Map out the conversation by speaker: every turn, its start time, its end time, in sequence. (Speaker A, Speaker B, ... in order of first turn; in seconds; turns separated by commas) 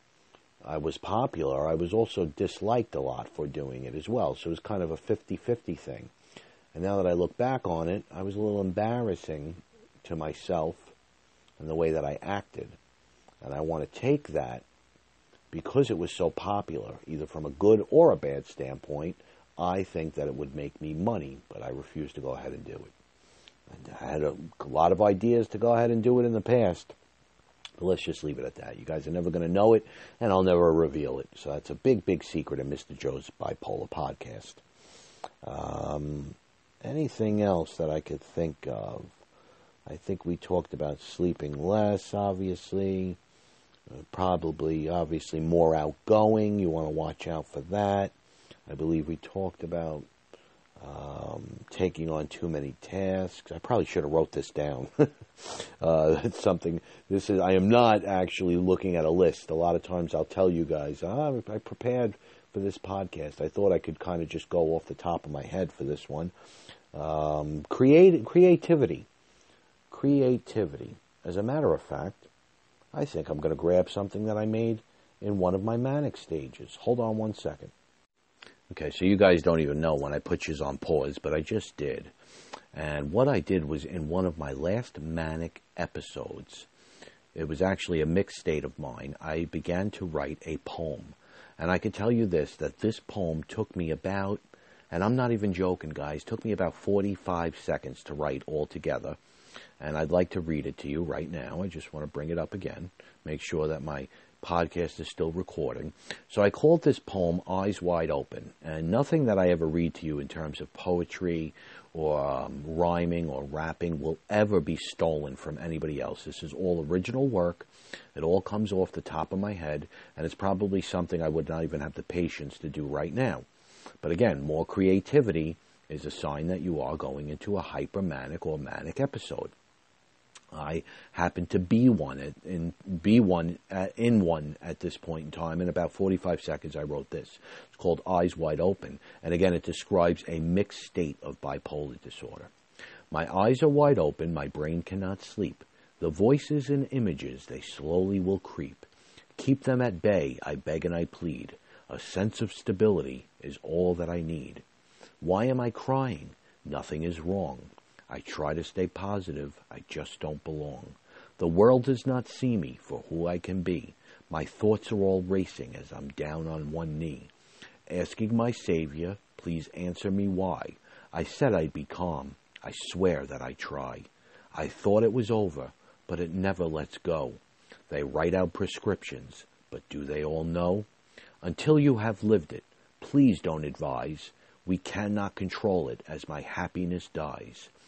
Speaker A: 0.6-6.1, Speaker A: 6.7-10.9, Speaker A: 11.6-12.8, Speaker A: 13.4-14.6, Speaker A: 15.5-22.9, Speaker A: 23.7-26.9, Speaker A: 27.8-34.6, Speaker A: 35.4-39.1, Speaker A: 39.9-43.2, Speaker A: 43.9-48.1, Speaker A: 48.7-50.1, Speaker A: 50.8-66.3, Speaker A: 66.9-69.1, Speaker A: 69.9-72.3, Speaker A: 72.9-77.7, Speaker A: 78.7-82.1, Speaker A: 82.7-86.7, Speaker A: 87.3-99.2, Speaker A: 99.8-123.4, Speaker A: 124.0-129.5, Speaker A: 130.5-142.5, Speaker A: 143.1-154.6, Speaker A: 155.2-167.3, Speaker A: 167.9-180.9, Speaker A: 181.4-187.7